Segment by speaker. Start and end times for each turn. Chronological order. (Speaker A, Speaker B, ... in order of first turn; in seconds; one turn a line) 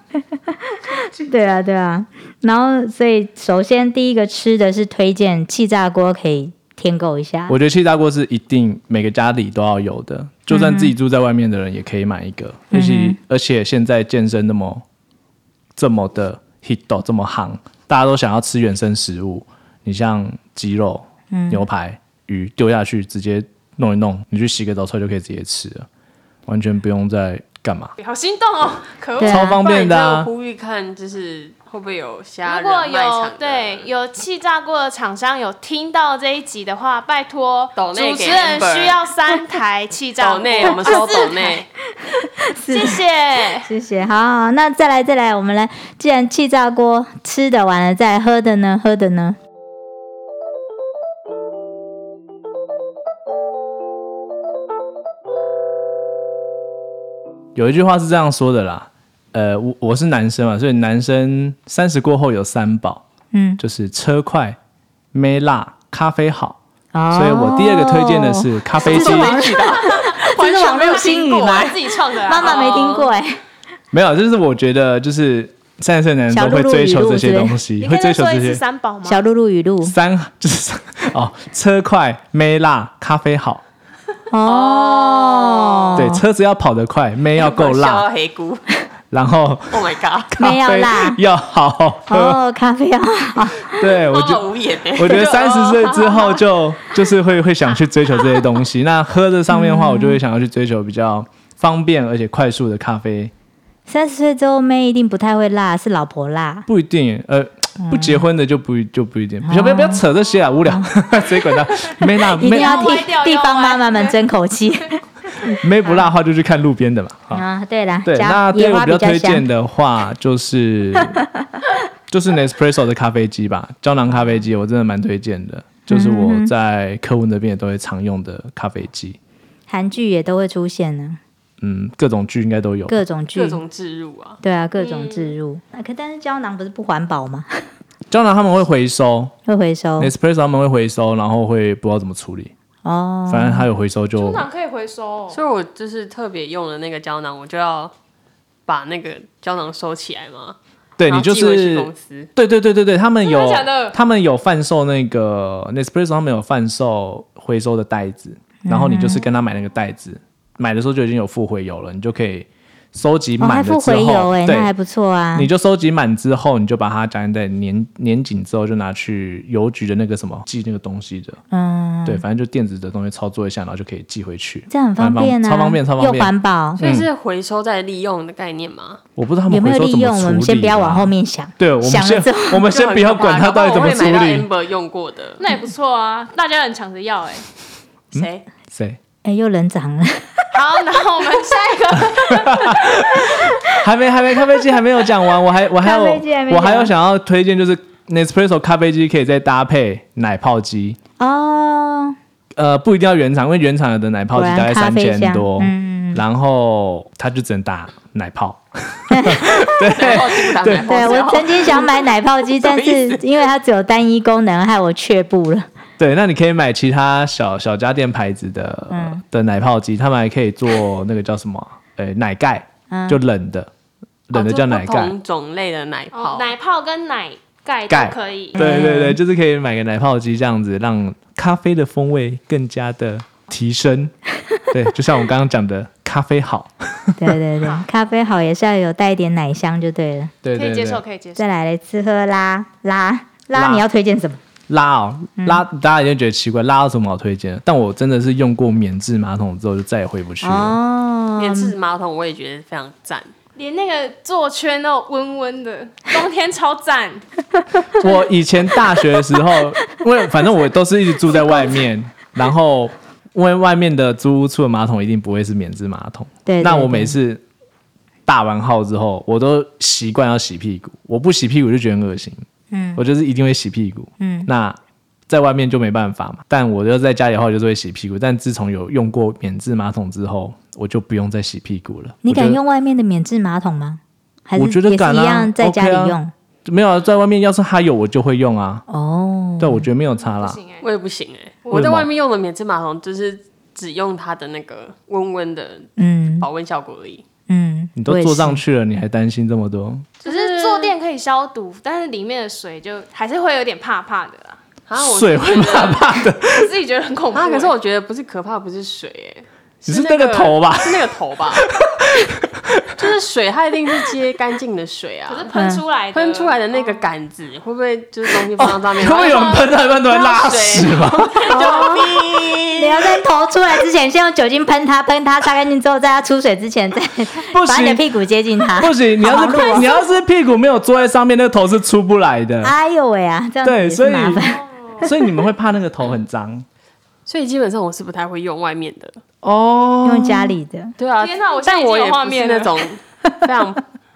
Speaker A: 0.5-7.5
Speaker B: 7.5-14.8
Speaker A: 10.5-10.9
Speaker A: 12.7-13.2
Speaker B: 15.8-25.9
Speaker A: 21.3-21.6
Speaker B: 26.5-27.9
Speaker C: 28.0-29.4
Speaker A: 29.2-29.6
Speaker B: 29.2-30.3
Speaker D: 29.5-33.9
Speaker C: 32.4-41.6
Speaker D: 37.7-39.1
Speaker D: 40.2-41.7
Speaker A: 42.6-43.0
Speaker C: 42.7-43.7
Speaker A: 43.6-49.4
Speaker B: 57.5-63.0
Speaker A: 63.3-63.6
Speaker B: 63.6-64.6
Speaker B: 65.1-66.6
Speaker A: 66.9-73.4
Speaker B: 67.1-69.5
Speaker D: 68.7-73.1
Speaker C: 71.6-72.7
Speaker B: 73.9-78.6
Speaker A: 76.3-77.6
Speaker C: 77.8-79.2
Speaker A: 79.0-79.9
Speaker B: 79.8-83.6
Speaker A: 84.3-86.2
Speaker D: 84.4-86.0
Speaker B: 86.0-88.1
Speaker D: 87.3-88.6
Speaker B: 89.1-92.4
Speaker D: 89.7-90.3
Speaker A: 90.4-91.2
Speaker A: 92.1-93.8
Speaker B: 93.8-103.3
Speaker D: 93.8-96.4
Speaker A: 99.5-100.2
Speaker A: 103.9-106.7
Speaker B: 106.7-113.0
Speaker A: 107.8-108.2
Speaker A: 109.4-110.0
Speaker A: 110.6-111.6
Speaker A: 112.2-116.1
Speaker C: 112.4-114.2
Speaker B: 115.6-117.4
Speaker A: 117.3-119.4
Speaker B: 118.0-121.2
Speaker B: 122.1-129.2
Speaker A: 125.9-126.5
Speaker A: 129.7-131.2
Speaker B: 131.6-133.0
Speaker A: 132.9-133.6
Speaker D: 133.3-134.4
Speaker A: 134.4-137.7
Speaker C: 134.8-135.3
Speaker B: 138.1-139.3
Speaker A: 139.5-140.1
Speaker B: 140.0-142.5
Speaker A: 142.8-143.7
Speaker B: 143.3-144.5
Speaker C: 144.2-145.4
Speaker D: 145.3-147.9
Speaker D: 148.7-152.3
Speaker B: 151.0-164.7
Speaker C: 153.2-154.0
Speaker A: 158.6-159.2
Speaker A: 163.4-165.5
Speaker B: 165.3-171.4
Speaker A: 171.5-172.2
Speaker B: 172.0-177.1
Speaker A: 174.7-176.8
Speaker D: 176.8-179.0
Speaker B: 179.2-184.5
Speaker A: 179.5-182.7
Speaker D: 182.7-185.4
Speaker C: 185.4-187.4
Speaker D: 188.1-188.4
Speaker B: 188.1-189.0
Speaker A: 189.2-190.4
Speaker C: 190.5-193.4
Speaker B: 192.3-201.0
Speaker A: 195.8-196.9
Speaker A: 201.2-202.2
Speaker B: 202.5-211.2
Speaker A: 204.3-206.2
Speaker A: 209.1-209.6
Speaker D: 209.8-213.3
Speaker A: 210.8-215.7
Speaker B: 216.0-223.7
Speaker A: 218.9-219.2
Speaker A: 222.9-223.2
Speaker B: 224.3-225.1
Speaker D: 224.3-226.5
Speaker C: 226.1-228.8
Speaker B: 227.9-234.1
Speaker A: 228.6-229.2
Speaker B: 234.7-237.2
Speaker A: 237.2-240.3
Speaker B: 240.4-241.0
Speaker C: 240.5-241.5
Speaker A: 241.3-244.4
Speaker B: 243.5-243.8
Speaker B: 244.7-250.8
Speaker A: 250.4-251.7
Speaker D: 251.4-253.3
Speaker C: 253.5-257.2
Speaker B: 257.9-267.4
Speaker A: 266.4-267.1
Speaker B: 268.3-272.4
Speaker A: 272.7-273.0
Speaker B: 272.9-274.8
Speaker A: 274.2-274.5
Speaker B: 275.3-282.6
Speaker A: 282.2-286.3
Speaker B: 284.6-288.9
Speaker A: 288.9-289.9
Speaker B: 289.6-290.6
Speaker C: 290.2-290.9
Speaker D: 290.8-297.2
Speaker B: 291.7-292.1
Speaker A: 296.0-296.5
Speaker A: 297.5-298.6
Speaker B: 298.0-300.1
Speaker D: 300.2-300.9
Speaker C: 300.2-304.6
Speaker D: 304.9-305.9
Speaker B: 305.0-306.7
Speaker C: 305.6-307.7
Speaker D: 307.3-311.6
Speaker B: 309.9-313.0
Speaker D: 313.0-315.5
Speaker C: 315.3-317.0
Speaker A: 315.6-315.8
Speaker D: 316.1-323.2
Speaker B: 318.6-321.5
Speaker C: 319.1-319.7
Speaker A: 321.5-322.1
Speaker A: 322.8-329.9
Speaker B: 327.5-328.0
Speaker B: 328.8-332.7
Speaker A: 332.6-335.1
Speaker B: 333.6-334.4
Speaker C: 334.4-335.1
Speaker B: 335.0-336.6
Speaker D: 337.2-339.2
Speaker B: 339.4-340.6
Speaker A: 340.0-340.9
Speaker D: 341.0-343.9
Speaker C: 341.2-342.8